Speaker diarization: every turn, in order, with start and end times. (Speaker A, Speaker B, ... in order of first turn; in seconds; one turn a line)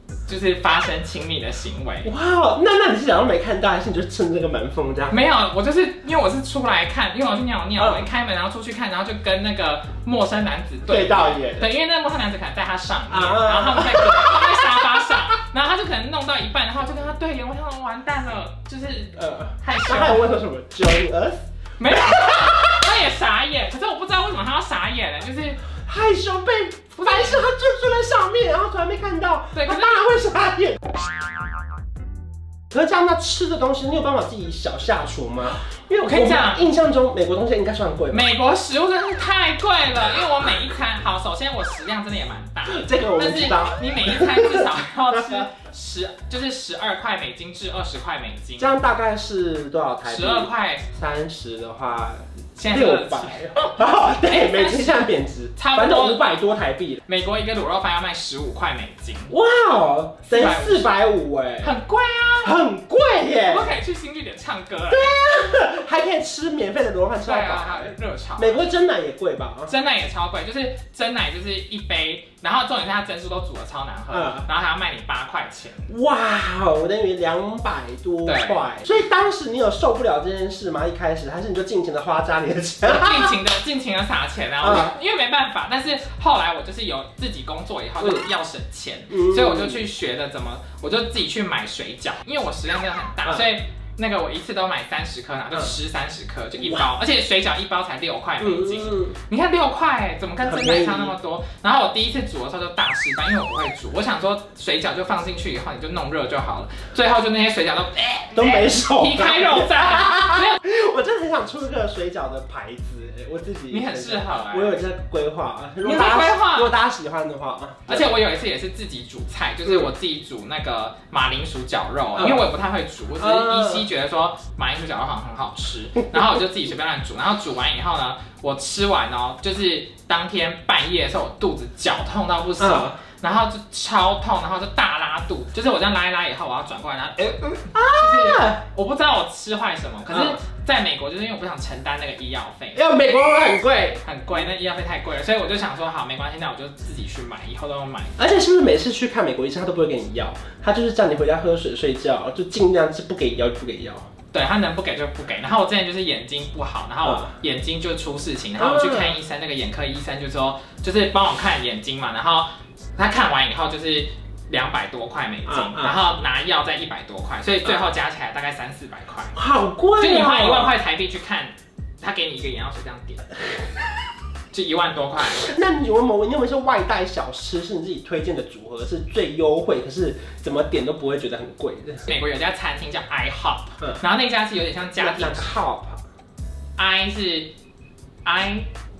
Speaker A: 0.3-2.1
Speaker B: 2.0-5.2
Speaker A: 5.1-20.2
Speaker B: 7.8-8.1
Speaker B: 10.9-11.7
Speaker B: 13.1-15.2
Speaker B: 19.1-22.9
Speaker A: 21.8-25.6
Speaker B: 25.8-30.9
Speaker A: 27.0-27.4
Speaker A: 29.5-30.0
Speaker B: 32.7-38.2
Speaker A: 36.0-36.7
Speaker A: 38.1-48.7
Speaker B: 42.7-45.4
Speaker B: 48.6-57.0
Speaker A: 50.0-50.8
Speaker A: 52.5-53.5
Speaker A: 54.2-56.4
Speaker A: 57.0-59.3
Speaker B: 59.3-61.7
Speaker A: 60.3-60.9
Speaker A: 61.6-62.5
Speaker B: 62.4-63.8
Speaker A: 63.5-65.1
Speaker B: 64.9-69.7
Speaker A: 67.2-68.7
Speaker A: 69.7-75.9
Speaker B: 74.1-74.5
Speaker B: 75.9-83.4
Speaker A: 78.2-78.6
Speaker A: 82.8-110.6
Speaker B: 84.6-84.9
Speaker B: 89.1-89.8
Speaker B: 93.2-93.5
Speaker B: 96.6-96.8
Speaker B: 98.4-99.2
Speaker B: 100.4-101.1
Speaker B: 108.3-118.2
Speaker A: 113.7-114.8
Speaker A: 115.8-116.7
Speaker A: 117.9-142.8
Speaker B: 119.7-119.9
Speaker B: 122.2-122.5
Speaker B: 123.2-123.9
Speaker B: 132.6-133.0
Speaker B: 137.7-138.6
Speaker B: 140.1-140.4
Speaker B: 142.7-144.0
Speaker A: 144.0-148.2
Speaker B: 148.2-154.1
Speaker A: 154.3-169.4
Speaker B: 157.0-157.3
Speaker B: 158.6-159.2
Speaker B: 165.4-166.0
Speaker B: 169.3-170.7
Speaker A: 170.0-173.3
Speaker A: 174.5-175.5
Speaker B: 175.4-182.1
Speaker A: 182.1-185.5
Speaker B: 185.0-186.0
Speaker A: 186.8-187.5
Speaker A: 188.2-188.7